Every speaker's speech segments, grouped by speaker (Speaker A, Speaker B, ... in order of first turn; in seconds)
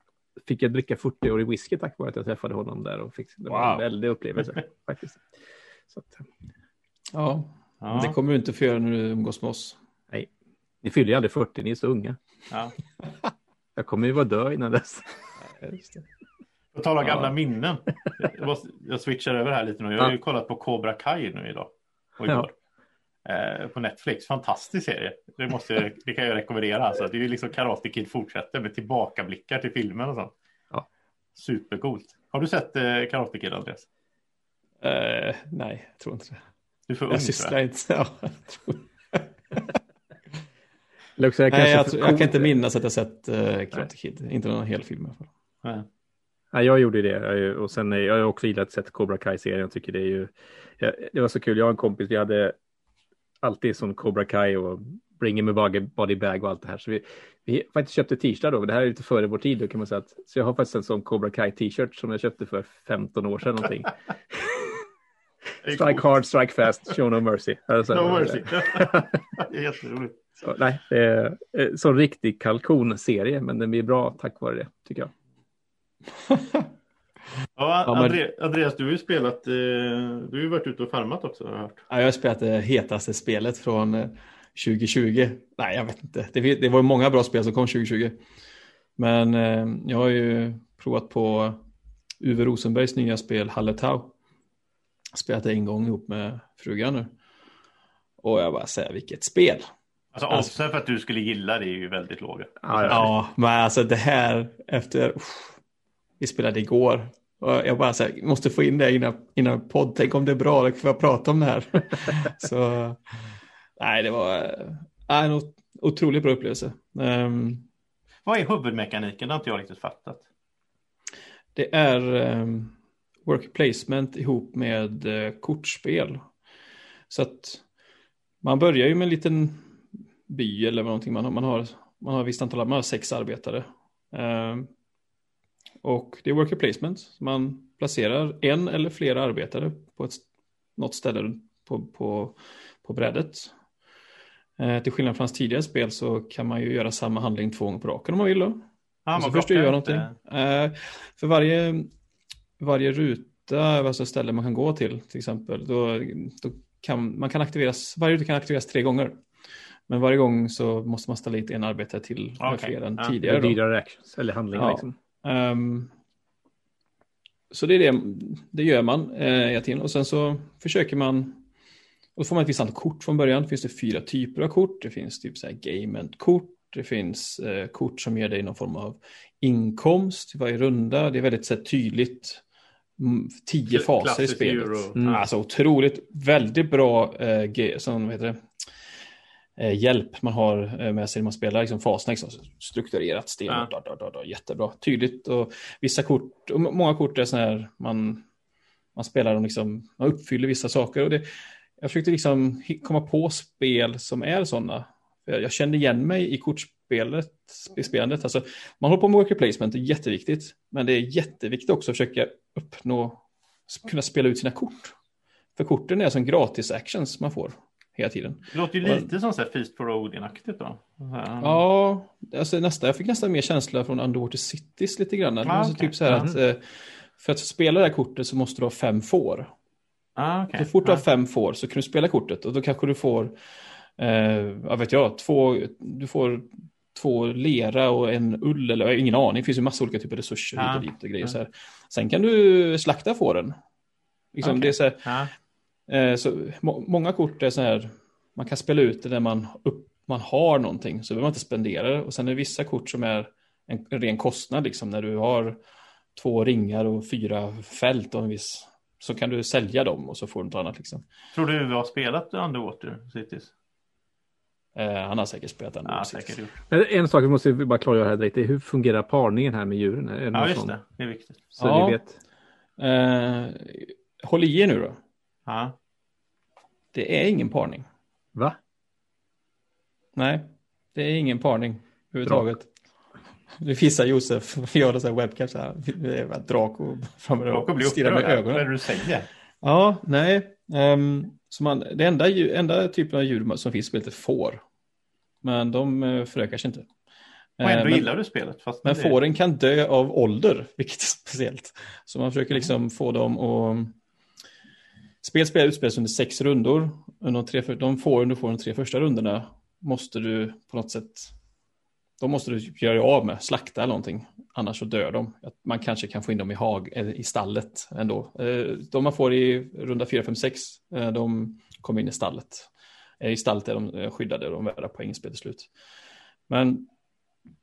Speaker A: 0.4-5.2, 5.9-6.3, 10.8-12.2, 13.8-15.2, 17.1-17.3, 41.2-42.5, 46.5-52.6, 53.4-64.7, 65.7-69.2, 70.4-75.1, 102.6-103.1, 163.2-165.0, 185.0-185.2, 266.7-270.7, 271.6-272.2
Speaker B: 3.5-3.8, 7.1-9.8, 15.4-16.0, 34.8-36.4, 37.1-39.7, 41.5-45.3, 76.3-76.7, 77.8-78.2, 81.9-88.2, 89.0-91.6, 92.2-94.1, 95.1-97.1, 98.2-99.7, 102.9-105.6, 106.2-113.0, 113.8-117.7, 121.5-126.2, 127.1-127.6, 128.4-129.7, 130.3-134.7, 135.8-143.5, 144.6-148.6, 149.2-151.9, 152.6-159.2, 159.9-163.6, 164.5-165.9, 167.5-171.4, 172.2-182.4, 183.0-188.5, 189.6-198.2, 198.9-201.2, 201.8-214.9, 215.6-219.1, 221.4-229.5, 230.6-233.3, 234.0-243.6, 244.3-245.0, 245.9-255.6, 256.1-261.0, 264.8-266.4, 271.6-272.0, 272.8-275.0, 276.9-277.9, 280.2-282.7, 283.6-288.7, 289.6-294.6, 295.4-296.9, 297.6-298.1, 298.8-304.0, 305.2-311.4, 312.2-325.7, 326.5-326.9
Speaker C: 7.8-8.2, 16.7-22.5, 23.3-30.3, 31.4-33.9, 36.9-37.5, 65.6-66.1, 67.9-70.2, 77.6-81.8, 100.1-103.1, 118.3-120.2, 149.1-150.1, 162.4-163.2, 183.7-185.3, 218.5-221.6, 225.4-226.3, 230.2-231.0, 240.6-241.3, 244.4-245.3, 261.3-263.5, 265.9-266.6, 270.3-271.4, 275.5-275.8, 287.5-289.3, 297.6-299.2